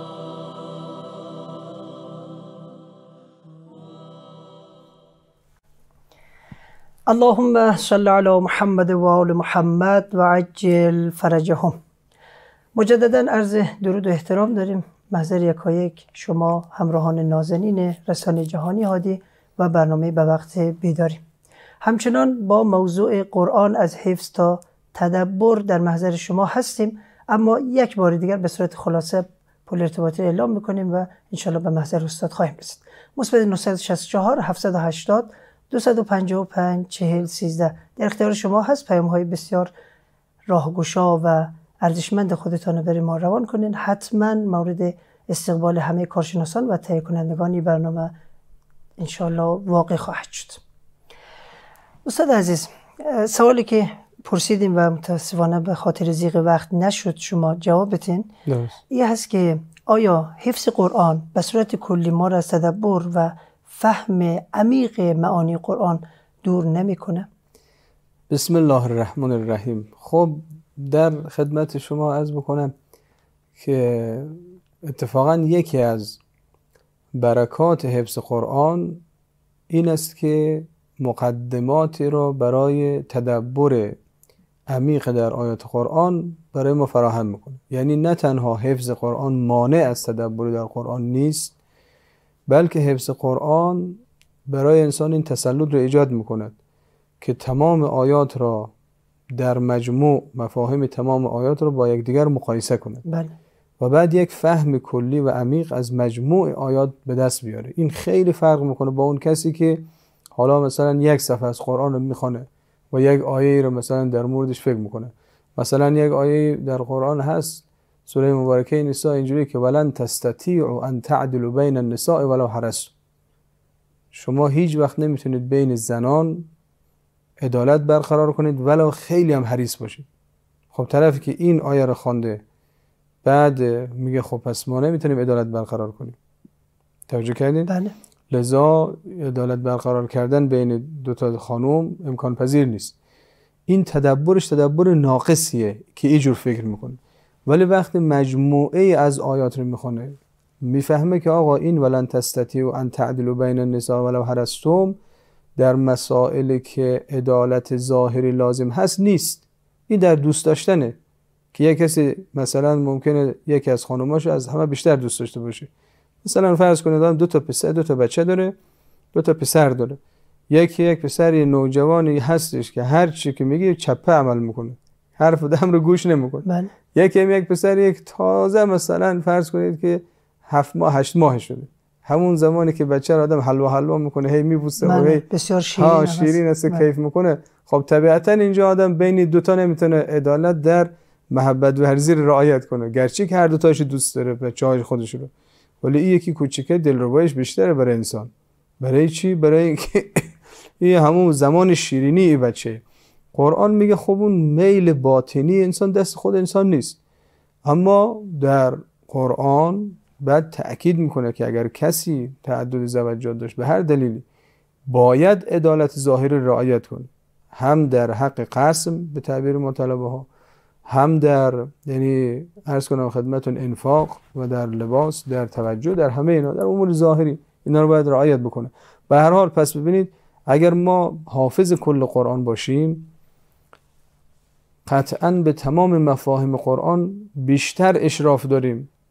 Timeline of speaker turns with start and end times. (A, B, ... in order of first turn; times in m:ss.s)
0:07.1-0:11.8 A
0:12.7-0:21.2 A
0:21.8-0:39.7 A
0:40.5-0:48.1 A
0:49.0-0:50.6 A
0:52.0-0:58.3 A
0:58.4-0:58.8 B
0:58.9-1:07.3 A
1:08.3-1:12.7 B
1:13.6-1:16.2 B
1:17.1-1:19.0 B
1:19.7-1:24.0 B
1:24.7-1:31.5 B
1:32.5-1:36.5 B
1:37.2-1:38.7 B
1:39.4-1:43.0 B
1:43.0-1:43.3 A
1:43.8-2:02.9 B
2:04.1-2:06.5 B
2:07.4-2:10.0 B
2:10.7-2:12.4 B
2:13.2-2:16.2 B
2:17.1-2:17.7 B
2:17.7-2:17.9 A
2:18.3-2:22.9 B
2:23.7-2:35.0 B
2:35.6-2:41.0 B
2:41.5-2:45.7 B
2:46.2-2:48.5 B
2:49.1-3:15.3 B
2:56.4-2:56.7 A
3:04.8-3:06.8 A
3:15.8-3:22.8 B
3:23.3-3:27.0 B
3:27.6-3:34.2 B
3:34.9-3:40.3 B
3:40.8-3:53.1 B
3:54.8-3:58.9 B